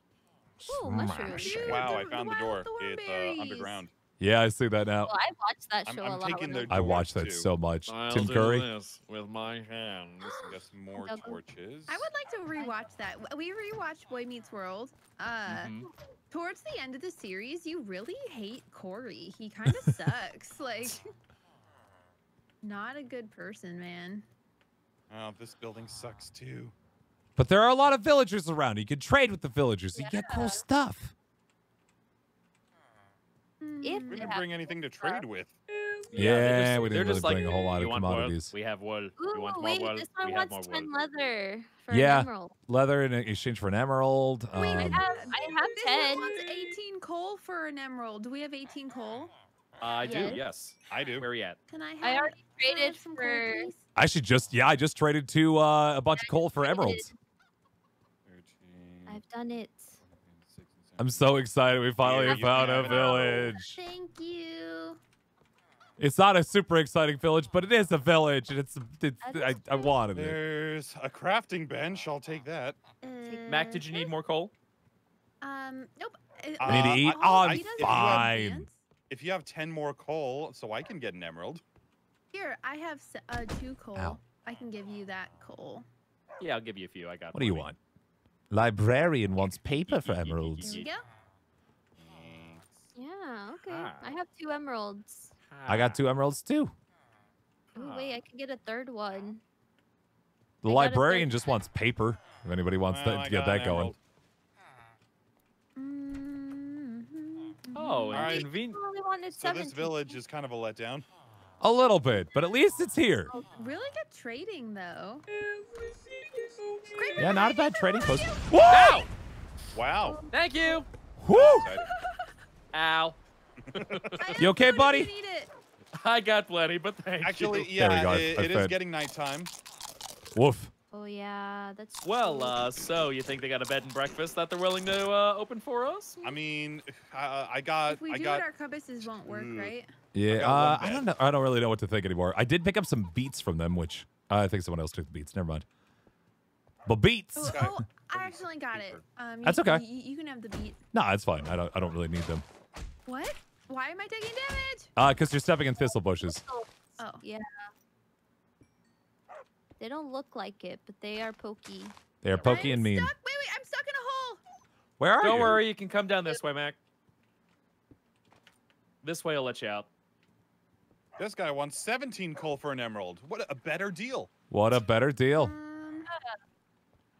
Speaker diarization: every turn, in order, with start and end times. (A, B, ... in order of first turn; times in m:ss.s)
0:00.6-0:01.8 A
0:00.6-0:01.8 B
0:01.4-0:03.8 C
0:01.6-0:03.9 D
0:04.2-0:05.1 B
0:05.0-0:07.0 A
0:05.8-0:07.5 D
0:06.7-0:08.7 B
0:07.8-0:10.5 E
0:10.2-0:11.4 A
0:10.4-0:12.1 D
0:11.9-0:15.7 C
0:15.5-0:15.9 E
0:16.3-0:21.0 C
0:22.6-0:24.2 C
0:25.1-0:26.7 D
0:27.4-0:31.1 B
0:29.9-0:30.6 A
0:33.6-0:34.4 C
0:33.8-0:35.2 A
0:34.1-0:35.5 D
0:36.1-0:40.9 E
0:36.2-0:38.5 B
0:39.2-0:42.5 A
0:41.9-0:45.0 B
0:44.5-0:49.3 C
0:44.5-0:46.4 A
0:49.8-0:51.6 E
0:50.0-0:50.4 A
0:50.9-0:51.2 D
0:51.7-0:53.8 C
0:52.0-0:53.7 A
0:54.0-0:57.1 B
0:56.2-0:57.1 A
0:58.2-0:59.2 D
0:59.1-1:00.0 A
1:00.0-1:01.4 D
1:01.0-1:03.8 B
1:02.0-1:03.5 D
1:02.2-1:03.3 A
1:03.2-1:05.0 C
1:06.0-1:10.4 B
1:09.2-1:10.0 A
1:10.1-1:12.8 D
1:13.0-1:14.0 C
1:13.2-1:13.9 A
1:13.5-1:14.5 E
1:15.4-1:18.8 C
1:16.6-1:18.4 D
1:16.6-1:18.7 B
1:19.1-1:21.6 D
1:22.3-1:25.8 C
1:26.4-1:27.7 E
1:27.3-1:27.8 B
1:28.5-1:30.7 B
1:29.4-1:30.9 E
1:30.6-1:31.0 C
1:32.0-1:32.8 D
1:32.9-1:35.3 A
1:33.7-1:34.1 E
1:35.5-1:36.0 E
1:35.7-1:36.7 B
1:37.7-1:38.2 E
1:37.7-1:39.4 A
1:40.6-1:43.9 B
1:40.6-1:41.4 A
1:42.9-1:44.0 D
1:45.8-1:48.4 C
1:47.7-1:48.8 E
1:48.1-1:50.2 A
1:48.1-1:48.5 D
1:49.3-1:51.1 D
1:51.6-1:53.3 B
1:53.5-1:55.2 C
1:55.4-1:57.3 E
1:56.9-1:58.9 C
1:57.2-1:59.0 B
1:58.6-1:59.1 E
1:59.7-2:00.2 D
2:00.0-2:00.3 A
2:00.3-2:00.9 E
2:01.2-2:01.7 B
2:01.3-2:01.9 D
2:01.9-2:02.3 C
2:02.7-2:03.2 E
2:03.7-2:04.1 D
2:03.7-2:04.4 E
2:04.2-2:05.5 C
2:04.4-2:05.1 B
2:05.9-2:07.7 E
2:07.2-2:09.5 D
2:07.7-2:08.8 B
2:10.3-2:10.7 B
2:10.9-2:12.6 A
2:12.0-2:16.2 E
2:16.2-2:18.5 D
2:17.9-2:19.9 C
2:19.0-2:19.7 D
2:20.1-2:25.6 B
2:20.3-2:21.0 D
2:26.8-2:27.7 B
2:27.4-2:30.8 C
2:27.4-2:29.0 D
2:29.4-2:29.8 B
2:30.9-2:32.4 B
2:33.0-2:34.9 C
2:35.0-2:36.4 B
2:36.3-2:37.7 A
2:37.0-2:37.2 C
2:39.8-2:41.9 A
2:42.2-2:43.1 B
2:42.3-2:42.8 E
2:42.4-2:44.4 C
2:45.0-2:45.6 B
2:45.2-2:46.8 E
2:49.0-2:49.9 E
2:51.2-2:54.3 D
2:54.5-2:55.5 B
2:55.3-2:56.1 C
2:56.1-2:56.3 A